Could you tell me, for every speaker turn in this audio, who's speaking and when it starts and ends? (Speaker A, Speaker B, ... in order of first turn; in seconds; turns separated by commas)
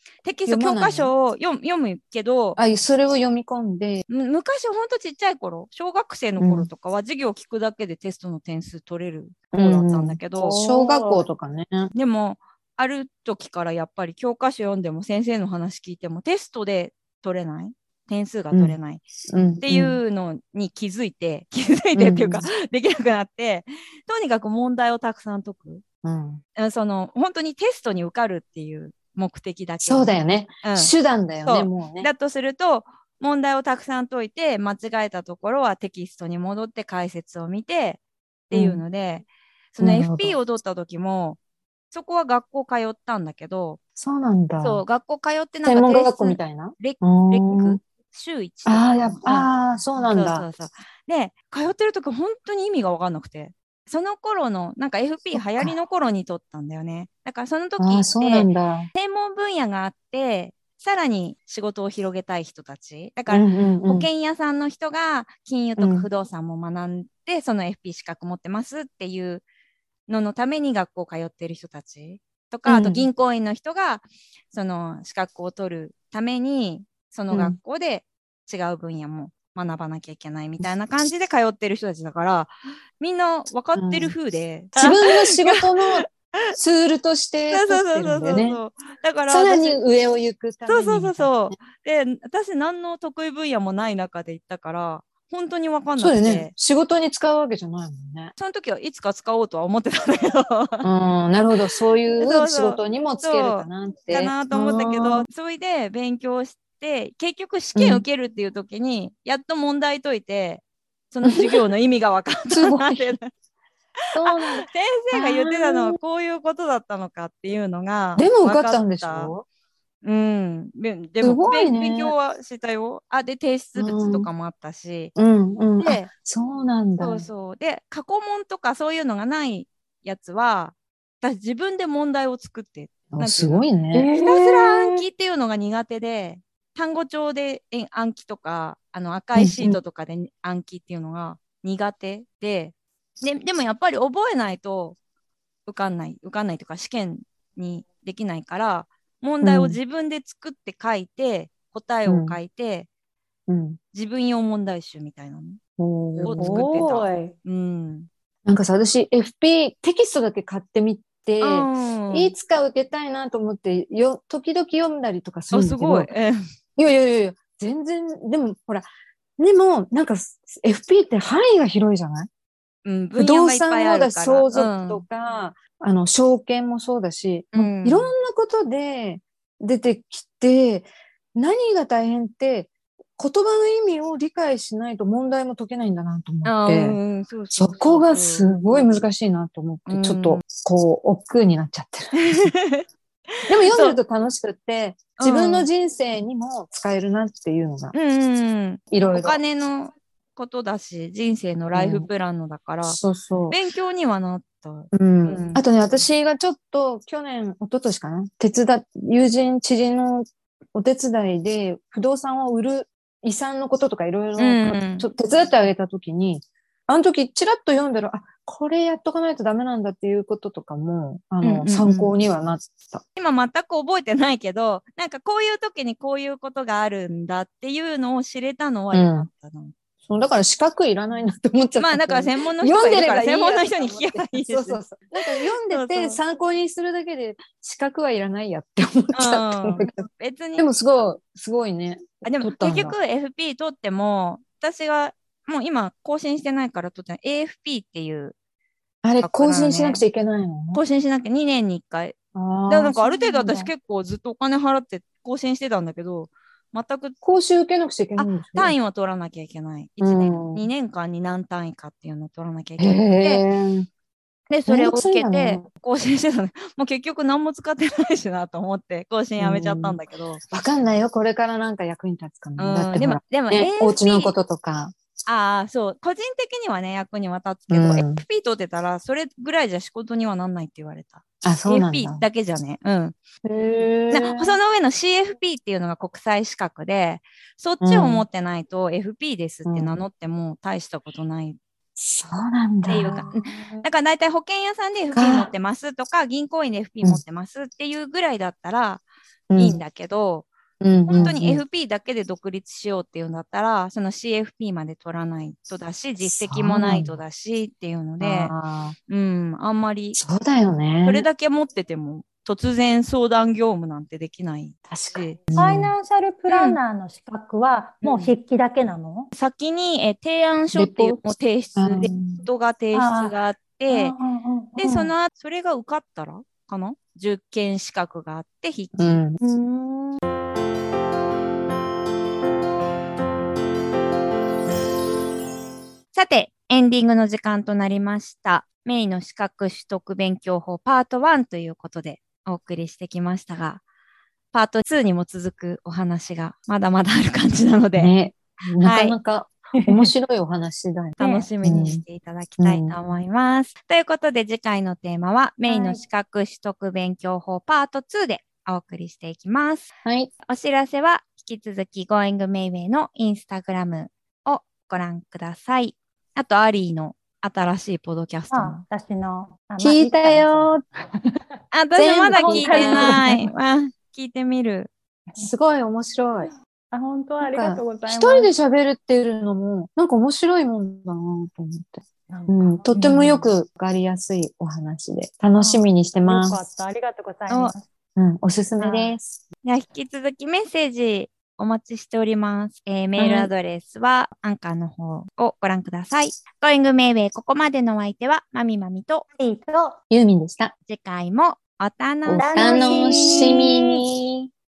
Speaker A: 0.2-2.6, Speaker B: 0.5-1.1, Speaker B: 2.6-4.0, Speaker A: 4.1-10.6, Speaker B: 6.4-6.7, Speaker B: 9.5-11.9, Speaker C: 10.6-11.3, Speaker A: 11.9-19.0, Speaker B: 19.3-20.0, Speaker A: 19.6-25.8, Speaker B: 21.9-22.5, Speaker B: 26.0-26.4, Speaker A: 26.6-41.4, Speaker B: 29.8-32.1, Speaker B: 38.5-38.8, Speaker B: 39.8-40.4, Speaker A: 41.9-43.8, Speaker B: 44.0-44.8, Speaker A: 44.6-69.4, Speaker B: 45.6-47.8, Speaker B: 48.7-50.5, Speaker B: 55.3-55.8, Speaker B: 57.8-58.9, Speaker B: 63.3-64.1, Speaker B: 65.8-66.1, Speaker A: 70.1-86.4, Speaker B: 72.7-73.1, Speaker B: 77.3-77.6, Speaker B: 83.8-84.1, Speaker B: 84.8-88.6, Speaker A: 87.5-89.8, Speaker B: 89.3-91.3, Speaker A: 90.7-96.5, Speaker B: 96.0-98.3, Speaker A: 98.4-100.9, Speaker B: 100.8-105.3, Speaker A: 102.2-113.3, Speaker B: 107.8-108.0, Speaker B: 111.2-111.6, Speaker B: 112.5-113.2, Speaker B: 114.1-116.0, Speaker A: 114.2-119.3, Speaker B: 118.2-119.5, Speaker A: 120.0-125.1, Speaker B: 121.2-122.2, Speaker B: 123.8-124.3, Speaker B: 125.2-127.3, Speaker A: 125.8-126.1, Speaker A: 127.0-145.0, Speaker B: 133.1-134.9, Speaker C: 134.0-134.4, Speaker B: 139.4-139.8, Speaker A: 145.7-152.9, Speaker B: 149.4-149.8, Speaker B: 152.1-152.4, Speaker B: 153.5-153.8, Speaker A: 153.9-155.6, Speaker B: 155.8-156.6, Speaker A: 156.2-158.1, Speaker C: 156.2-157.3, Speaker B: 158.4-166.1, Speaker A: 161.4-162.3, Speaker A: 165.5-166.4, Speaker B: 166.8-168.9, Speaker B: 169.4-172.3, Speaker A: 172.8-175.1, Speaker B: 173.2-187.0, Speaker A: 177.5-178.1, Speaker A: 186.4-189.0, Speaker B: 187.5-192.5, Speaker A: 189.9-190.4, Speaker A: 192.2-192.9, Speaker B: 193.5-197.9, Speaker A: 193.5-194.0, Speaker A: 195.2-195.7, Speaker A: 197.9-203.0, Speaker B: 198.9-199.4, Speaker B: 201.7-202.1, Speaker B: 202.8-203.6, Speaker A: 203.5-205.7, Speaker B: 204.9-223.0, Speaker A: 214.4-215.1, Speaker A: 221.4-222.1, Speaker A: 223.2-229.8, Speaker B: 228.9-229.3, Speaker B: 230.0-240.1, Speaker A: 231.8-236.2, Speaker A: 239.1-240.7, Speaker B: 240.6-243.0, Speaker A: 242.2-248.3, Speaker B: 249.0-250.8, Speaker A: 249.2-250.0, Speaker A: 250.7-252.2, Speaker B: 252.3-253.7, Speaker A: 252.7-257.2, Speaker B: 257.2-258.8, Speaker A: 258.2-263.4, Speaker B: 260.0-260.7, Speaker B: 262.8-263.9, Speaker A: 264.5-270.4, Speaker B: 264.7-265.7, Speaker B: 269.4-270.0, Speaker B: 270.5-274.9, Speaker A: 272.6-274.3, Speaker A: 275.3-283.2, Speaker B: 277.7-278.2, Speaker B: 281.4-282.3, Speaker B: 283.4-284.6, Speaker A: 284.1-291.6, Speaker B: 287.8-288.3, Speaker B: 289.7-290.0, Speaker B: 292.0-293.8, Speaker A: 292.9-299.0, Speaker B: 295.1-295.5, Speaker B: 299.5-299.8, Speaker A: 299.6-300.5, Speaker B: 300.8-301.6, Speaker A: 301.1-308.6, Speaker B: 306.2-307.2, Speaker B: 308.2-308.9, Speaker A: 309.1-310.2, Speaker B: 310.2-311.3, Speaker A: 311.1-315.4, Speaker B: 314.9-315.9, Speaker C: 315.6-319.3, Speaker A: 316.5-316.8, Speaker A: 318.0-318.3, Speaker A: 319.3-324.2, Speaker B: 320.8-321.2, Speaker B: 321.8-322.4, Speaker C: 322.9-323.4, Speaker C: 323.9-325.1, Speaker A: 324.8-329.2, Speaker B: 329.0-329.4, Speaker C: 329.4-330.2, Speaker A: 336.1-343.8, Speaker A: 344.5-348.1, Speaker B: 348.0-352.0, Speaker A: 348.8-349.2, Speaker C: 349.8-350.1, Speaker A: 351.2-359.9, Speaker C: 351.2-351.9, Speaker B: 352.6-352.9, Speaker C: 355.7-356.0, Speaker B: 360.1-360.3, Speaker A: 360.5-368.8, Speaker C: 368.5-371.4, Speaker B: 369.8-370.8, Speaker A: 371.7-374.9, Speaker B: 372.0-373.3, Speaker C: 372.3-373.5, Speaker B: 375.4-376.5, Speaker C: 376.9-378.5, Speaker B: 377.4-386.6, Speaker C: 382.3-383.5, Speaker C: 385.6-387.9, Speaker A: 387.5-387.7, Speaker B: 388.2-389.4, Speaker C: 388.8-389.2, Speaker A: 389.6-399.2, Speaker B: 393.2-393.5, Speaker C: 399.4-400.0, Speaker B: 400.1-400.7, Speaker A: 400.9-403.5, Speaker B: 402.2-404.5, Speaker C: 402.3-403.8